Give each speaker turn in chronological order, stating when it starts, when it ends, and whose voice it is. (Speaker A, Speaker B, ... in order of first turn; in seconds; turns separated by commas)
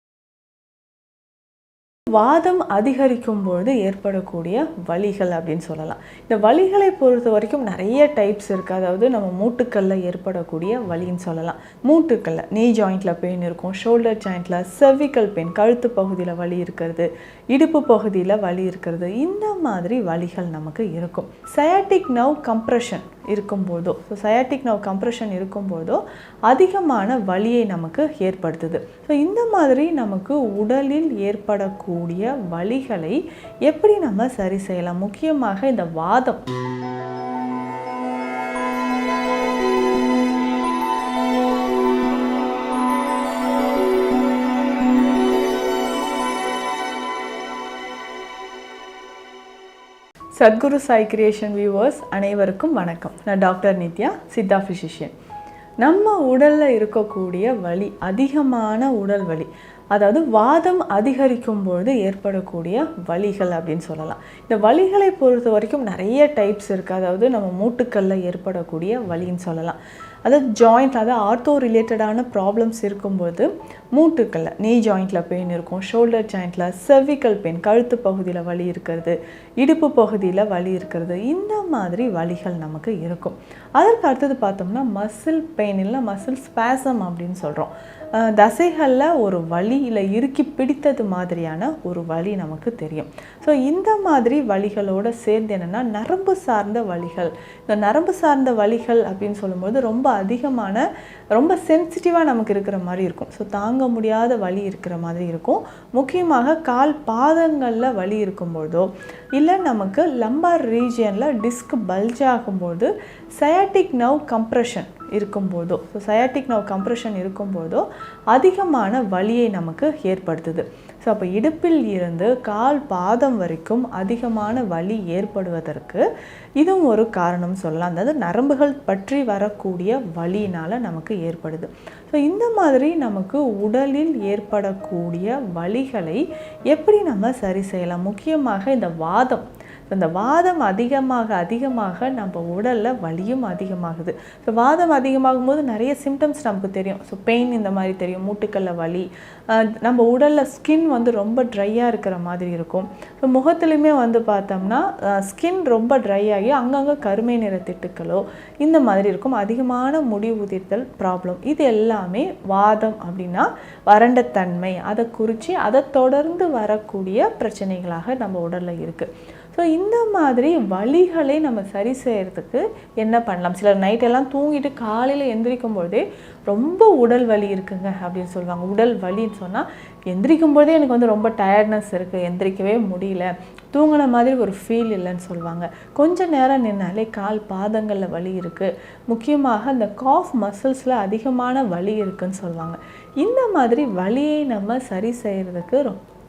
Speaker A: 2.1-36.4, Speaker A: 50.4-55.1, Speaker A: 55.8-100.8, Speaker A: 101.3-126.0, Speaker A: 126.6-196.0